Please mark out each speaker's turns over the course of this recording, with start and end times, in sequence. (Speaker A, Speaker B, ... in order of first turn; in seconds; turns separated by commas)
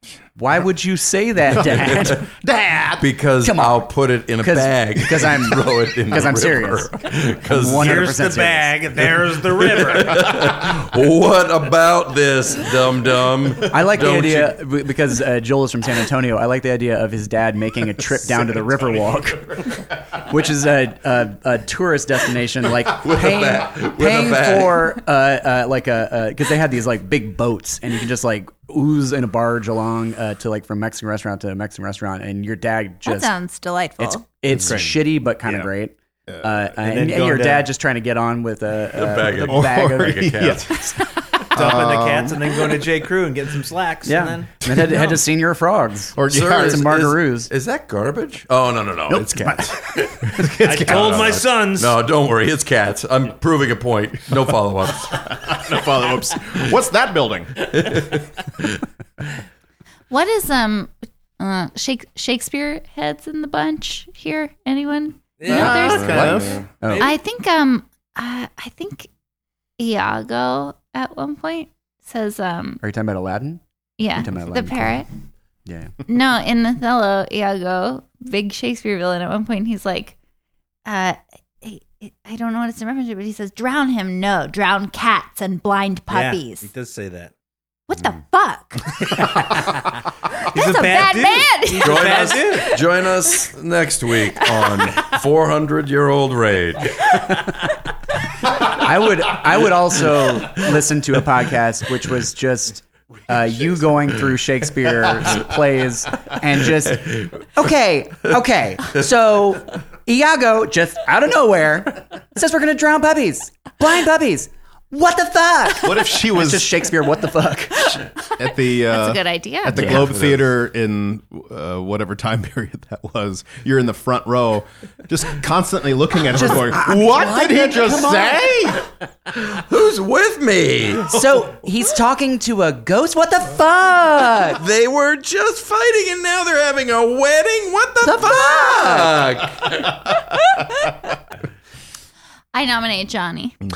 Speaker A: 0.4-2.3, Speaker B: 1.5-3.1, Speaker C: 1.7-2.2, Speaker C: 3.0-8.2, Speaker A: 3.4-3.9, Speaker A: 4.4-8.8, Speaker D: 7.7-10.7, Speaker C: 9.3-14.6, Speaker A: 13.7-33.3, Speaker C: 22.9-25.0, Speaker E: 33.0-34.3, Speaker A: 34.0-40.9, Speaker D: 34.6-34.9, Speaker B: 35.5-35.7, Speaker B: 36.3-36.5, Speaker D: 36.8-37.7, Speaker C: 38.9-40.8, Speaker B: 39.4-40.9, Speaker B: 41.5-42.4, Speaker D: 41.5-44.5, Speaker A: 44.0-47.5, Speaker B: 46.2-46.8, Speaker C: 46.3-55.7, Speaker A: 49.1-51.1, Speaker D: 50.6-52.0, Speaker B: 55.1-57.7, Speaker C: 57.6-58.8, Speaker E: 60.1-66.4, Speaker D: 65.4-66.0, Speaker B: 65.5-66.6, Speaker C: 65.6-66.7, Speaker A: 66.0-67.2, Speaker D: 66.8-67.1, Speaker E: 67.0-69.1, Speaker E: 69.8-72.8, Speaker A: 72.8-75.0, Speaker E: 74.0-75.1, Speaker A: 75.7-76.0, Speaker E: 76.0-80.2, Speaker E: 80.9-86.7, Speaker D: 86.1-87.3, Speaker E: 87.9-89.5, Speaker D: 89.0-92.8, Speaker E: 90.3-92.6, Speaker C: 91.8-97.2, Speaker E: 94.3-95.1, Speaker A: 97.1-97.5, Speaker A: 98.5-118.1, Speaker C: 106.9-107.4, Speaker B: 115.8-116.7, Speaker B: 118.3-128.9, Speaker E: 118.8-120.0, Speaker A: 119.7-120.1, Speaker C: 119.9-120.5, Speaker A: 126.3-128.5, Speaker C: 129.3-131.4, Speaker A: 131.1-134.6, Speaker C: 134.6-140.2, Speaker A: 138.0-139.2, Speaker E: 142.5-143.6